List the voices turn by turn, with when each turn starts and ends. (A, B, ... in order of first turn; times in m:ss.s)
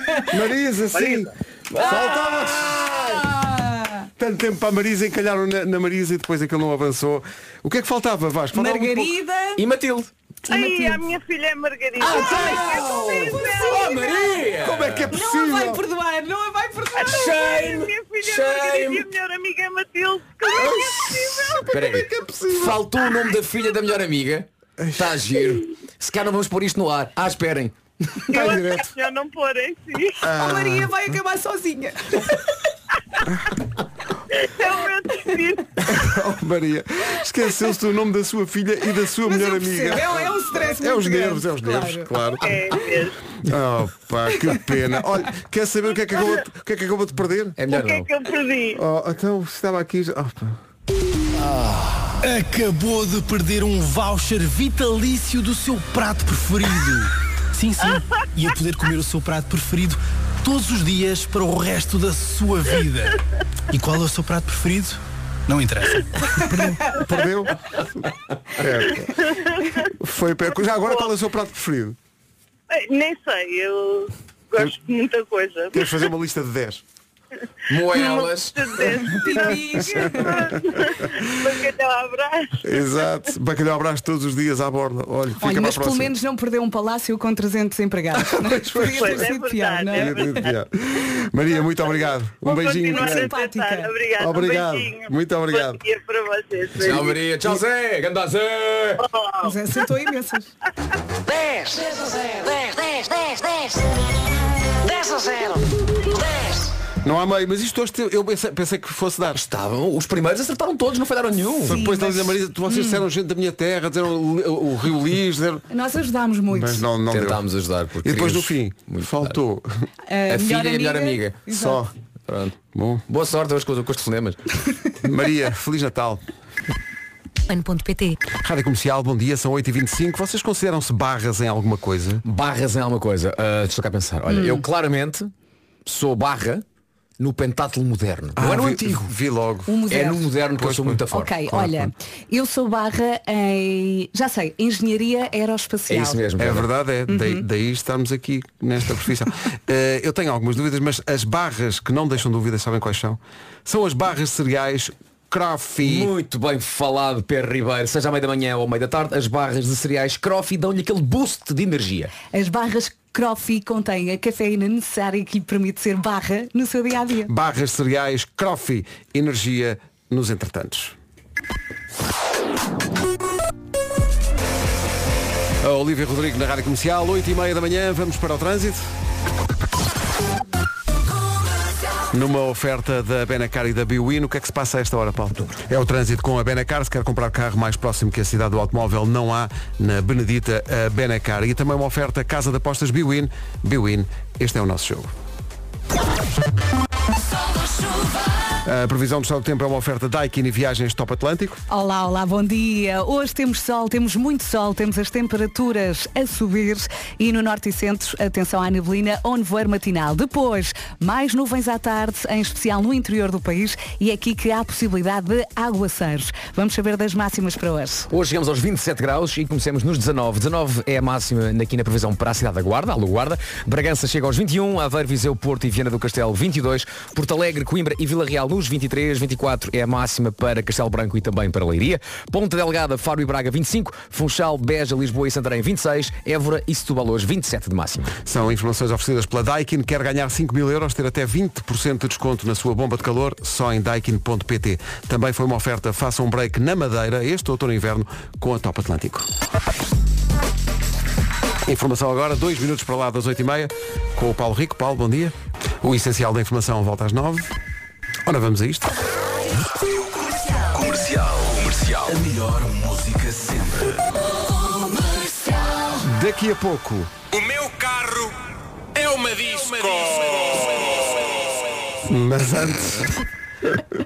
0:00.2-0:03.0 A
0:00.9-0:01.3 B
0:01.7-0:03.3 C
0:03.2-0:04.0 D
0:04.2-0:09.1 A
0:08.5-0:09.6 D
0:09.6-0:10.1 C
0:10.5-0:11.0 D
0:10.5-0:14.1 B
0:12.0-0:15.1 C
0:12.1-0:14.2 D
0:14.6-0:15.8 A
0:15.1-0:17.2 D
0:17.0-0:21.7 B
0:17.0-0:19.1 C
0:20.8-0:27.7 C
0:21.4-0:22.9 A
0:28.3-0:30.3 B
0:28.3-0:28.9 A
0:30.2-0:30.9 A
0:30.3-0:32.3 D
0:33.2-0:33.5 A
0:34.3-0:35.8 B
0:35.8-0:42.5 A
0:39.2-0:42.1 D
0:42.4-0:43.2 B
0:43.4-0:47.6 A
0:47.6-0:48.1 C
0:47.7-0:48.8 B
0:48.7-0:50.6 A
0:52.2-1:03.2 E
1:03.7-1:06.8 E
1:06.5-1:08.0 A
1:08.6-1:09.2 A
1:09.0-1:09.8 B
1:10.0-1:12.0 A
1:10.7-1:11.1 B
1:12.7-1:16.0 B
1:15.7-1:16.8 A
1:17.7-1:18.9 C
1:17.8-1:22.6 B
1:19.2-1:20.3 D
1:22.6-1:26.1 A
1:25.4-1:30.2 D
1:28.2-1:29.3 A
1:28.8-1:30.5 B
1:29.9-1:33.3 A
1:32.4-1:37.2 B
1:32.8-1:33.9 D
1:34.2-1:35.8 A
1:36.8-1:39.0 C
1:39.0-1:39.6 B
1:39.4-1:40.5 D
1:41.3-1:43.9 F
1:44.8-1:46.7 F
1:47.0-1:49.4 A
1:49.3-1:51.8 C
1:51.6-1:55.6 A
1:51.7-1:53.0 D
1:55.7-1:56.8 D
1:56.5-1:57.4 A
1:57.1-1:59.3 C
1:58.0-1:59.8 A
2:00.1-2:01.8 D
2:00.3-2:01.4 C
2:01.5-2:01.9 A
2:02.3-2:02.6 C
2:02.7-2:03.0 A
2:03.1-2:04.4 C
2:05.0-2:06.2 A
2:07.5-2:08.1 D
2:08.4-2:12.2 A
2:12.2-2:15.3 C
2:14.3-2:14.6 D
2:15.8-2:16.6 C
2:17.2-2:19.1 C
2:18.4-2:19.8 A
2:19.6-2:20.3 D
2:19.9-2:21.3 C
2:20.5-2:21.9 A
2:21.1-2:26.2 D
2:25.9-2:26.7 C
2:26.4-2:36.1 A
2:27.1-2:27.4 D
2:35.8-2:42.1 C
2:42.3-2:47.3 D
2:47.3-2:51.0 A
2:55.6-2:58.8 A
3:02.1-3:15.1 A
3:18.6-3:21.6 A
3:21.7-3:38.1 D
3:38.1-3:58.1 C
3:58.2-4:09.3 A
4:11.7-4:17.5 A
4:18.2-4:19.0 A
4:26.0-4:27.1 A
4:29.0-4:29.5 E
4:32.0-4:33.2 A